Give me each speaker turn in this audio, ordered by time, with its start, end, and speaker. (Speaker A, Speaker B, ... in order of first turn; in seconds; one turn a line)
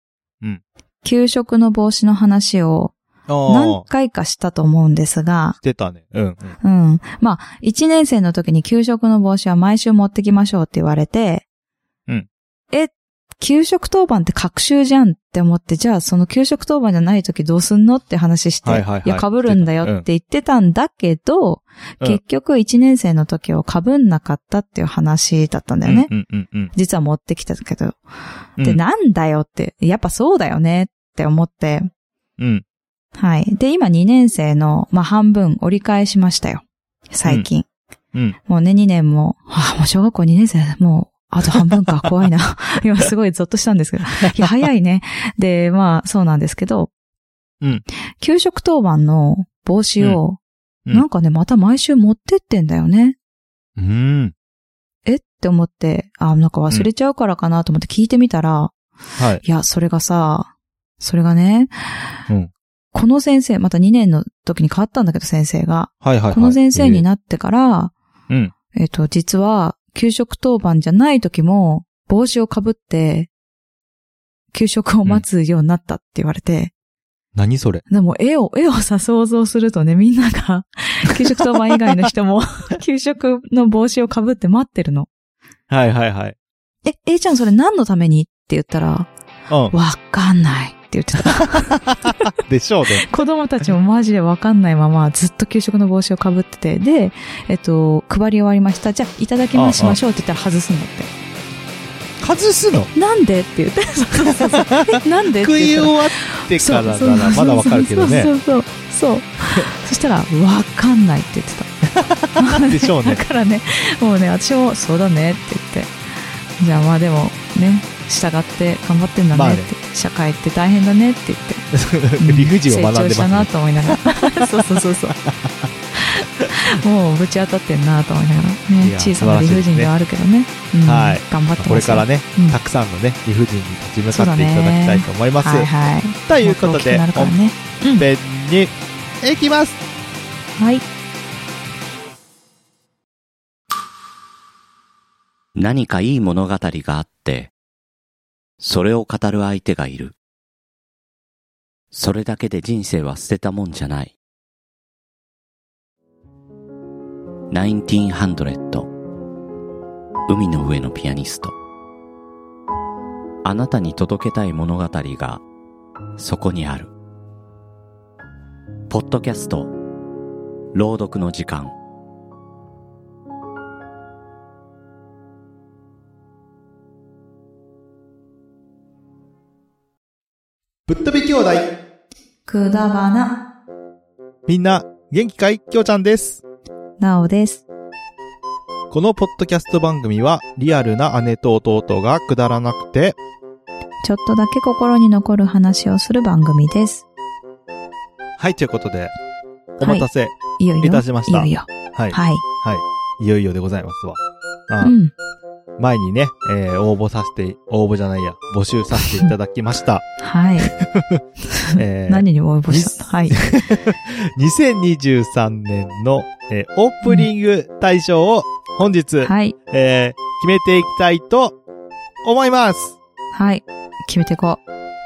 Speaker A: 1.0-2.9
Speaker B: 3.3-3.9
Speaker A: 3.5-5.6
Speaker B: 5.6-6.6
Speaker A: 6.6-11.4
Speaker A: 12.7-26.1
Speaker B: 18.6-20.1
Speaker B: 25.8-26.7
Speaker A: 26.7-28.0
Speaker A: 28.6-31.9
Speaker B: 32.4-32.6
Speaker A: 33.2-37.7
Speaker A: 38.5-46.9
Speaker A: 48.2-50.4
Speaker A: 50.9-53.2
Speaker B: 53.8-54.3
Speaker A: 55.1-58.7
Speaker B: 59.2-59.4
Speaker A: 59.4-61.8
Speaker A: 62.9-67.9
Speaker B: 66.0-67.0
Speaker A: 68.7-73.3
Speaker A: 74.5-76.7
Speaker B: 77.3-77.8
Speaker A: 77.9-85.1
Speaker B: 85.7-86.4
Speaker A: 86.8-89.1
Speaker B: 89.5-89.7
Speaker A: 89.7-92.3
Speaker B: 91.8-93.1
Speaker A: 93.0-101.1
Speaker B: 99.5-100.0
Speaker B: 102.2-102.9
Speaker A: 102.9-111.7
Speaker B: 104.3-108.3
Speaker B: 111.9-113.2
Speaker A: 112.4-115.9
Speaker A: 116.6-125.2
Speaker B: 119.3-119.7
Speaker B: 121.7-124.1
Speaker B: 125.3-125.7
Speaker A: 126.0-132.6
Speaker B: 128.8-129.9
Speaker B: 130.8-135.7
Speaker A: 134.1-138.1
Speaker B: 136.3-137.4
Speaker B: 138.0-139.8
Speaker A: 140.6-140.8
Speaker C: 145.6-147.5
Speaker C: 148.6-150.2
Speaker C: 151.9-154.2
Speaker C: 157.5-158.9
Speaker C: 160.3-161.6
Speaker C: 163.4-165.4
Speaker C: 166.2-166.9
Speaker C: 168.9-169.7
Speaker C: 170.7-171.7
Speaker B: 180.9-181.7
Speaker A: 182.5-183.3
Speaker B: 184.5-186.4
Speaker A: 187.0-187.6
Speaker B: 188.9-193.2
Speaker A: 194.0-197.1
Speaker B: 198.4-199.1
Speaker B: 199.8-204.9
Speaker A: 199.8-202.4
Speaker A: 204.8-205.1
Speaker B: 205.8-210.0
Speaker A: 210.2-210.7
Speaker B: 210.6-211.2
Speaker A: 211.5-213.4
Speaker B: 211.8-221.6
Speaker A: 219.2-219.6
Speaker B: 222.2-223.0
Speaker A: 223.3-224.6